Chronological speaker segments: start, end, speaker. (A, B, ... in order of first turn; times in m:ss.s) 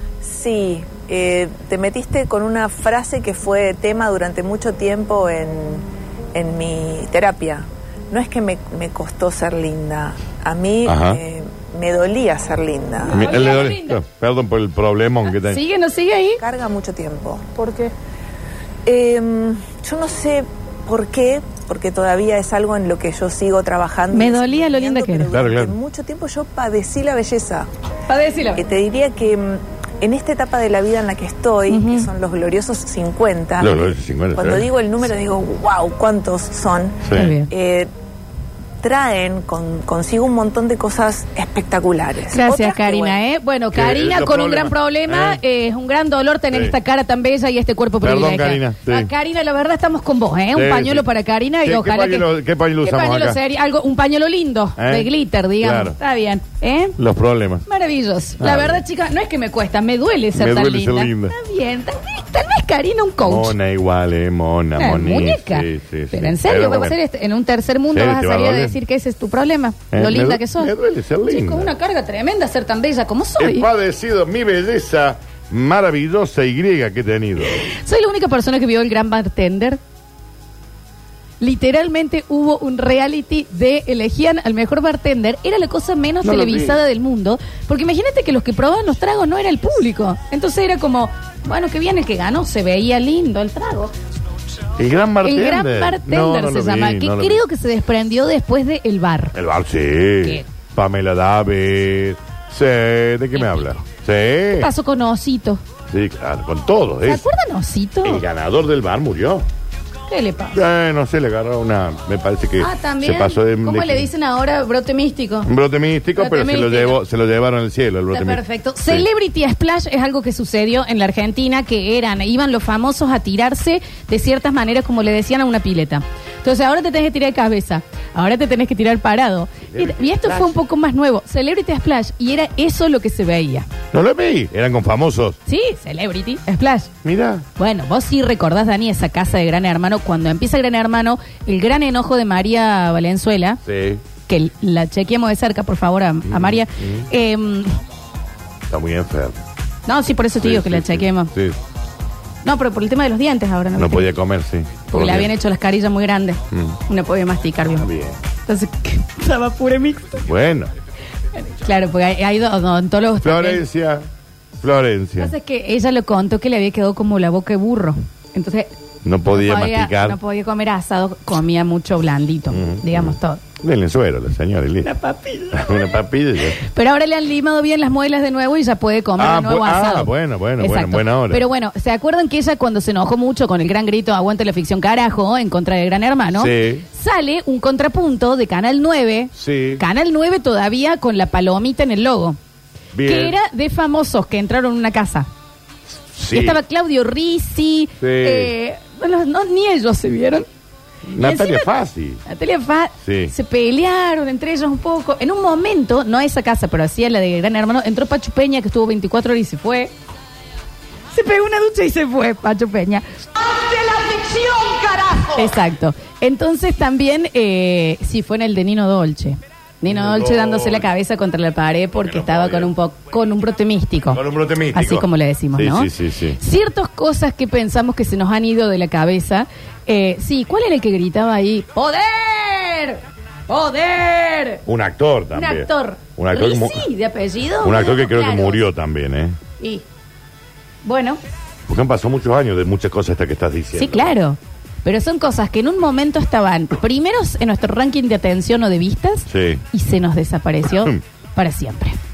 0:00.2-0:13.4 A
0:10.8-0:11.2 B
0:13.0-0:14.0 C
0:13.1-0:15.6 B
0:15.3-0:16.4 C
0:16.4-0:17.6 A
0:17.6-0:17.9 C
0:18.9-0:27.7 A
0:24.1-0:25.3 C
0:25.3-0:25.8 B
0:28.1-0:28.6 C
0:28.5-0:37.9 A
0:31.7-0:32.1 C
0:33.6-0:34.7 B
0:37.0-0:37.3 B
0:37.1-0:37.5 C
0:38.8-0:43.2 A
0:42.3-0:52.3 C
0:43.7-0:45.4 B
0:46.5-0:46.8 B
0:48.0-0:49.1 B
0:50.5-0:51.0 B
0:51.6-0:53.4 B
0:52.8-0:57.0 C
0:54.8-0:56.0 B
0:57.0-0:57.7 B
0:57.7-1:03.6 C
0:58.4-0:58.8 B
1:00.3-1:01.4 B
1:03.2-1:07.0 B
1:04.8-1:10.7 C
1:07.9-1:08.8 B
1:09.9-1:11.7 B
1:11.3-1:13.7 C
1:13.4-1:17.7 B
1:17.5-1:19.8 C
1:21.4-1:33.9 C
1:26.2-1:26.8 B
1:34.8-1:37.4 B
1:35.2-1:39.4 C
1:39.4-1:44.7 B
1:43.3-1:43.8 C
1:44.6-1:45.6 C
1:45.9-1:47.3 B
1:47.1-1:48.2 C
1:48.0-1:49.4 B
1:50.1-1:50.6 C
1:50.5-1:54.1 B
1:52.6-1:55.5 C
1:55.4-1:59.1 B
1:56.2-1:57.0 C
1:58.1-2:13.7 C
2:09.7-2:10.6 B
2:13.9-2:15.4 B
2:15.5-2:16.9 C
2:17.0-2:17.5 B
2:17.6-2:23.6 C
2:23.6-2:24.0 B
2:24.3-2:27.8 C
2:26.3-2:27.0 B
2:28.7-2:29.4 B
2:29.9-2:31.3 C
2:30.4-2:31.6 B
2:32.4-2:34.2 C
2:33.8-2:35.3 B
2:34.9-2:40.2 C
2:36.5-2:36.8 B
2:37.8-2:38.2 B
2:40.2-2:40.7 B
2:41.4-2:43.6 C
2:43.2-2:44.1 B
2:44.6-2:45.3 B
2:45.2-2:48.7 C
2:49.0-2:50.2 B
2:49.3-2:53.4 C
2:52.5-2:54.9 B
2:54.8-2:56.0 C
2:55.5-2:56.6 B
2:56.6-3:12.4 C
2:59.2-3:01.4 B
3:06.3-3:06.8 B
3:09.4-3:09.8 B
3:12.9-3:13.4 B
3:13.0-3:15.3 C
3:16.1-3:16.6 B
3:16.3-3:20.5 C
3:18.0-3:18.5 B
3:21.1-3:22.2 B
3:21.2-3:21.7 C
3:22.3-3:29.9 C
3:23.0-3:23.3 B
3:31.1-3:44.2 C
3:39.8-3:40.9 B
3:42.0-3:42.7 B
3:44.1-3:46.4 B
3:44.7-3:54.6 C
3:54.7-3:56.9 B
3:55.3-3:58.6 C
3:57.6-3:59.4 B
3:59.6-3:59.8 C
4:00.8-4:01.2 C
4:01.7-4:04.1 B
4:03.8-4:12.0 C
4:09.3-4:09.6 B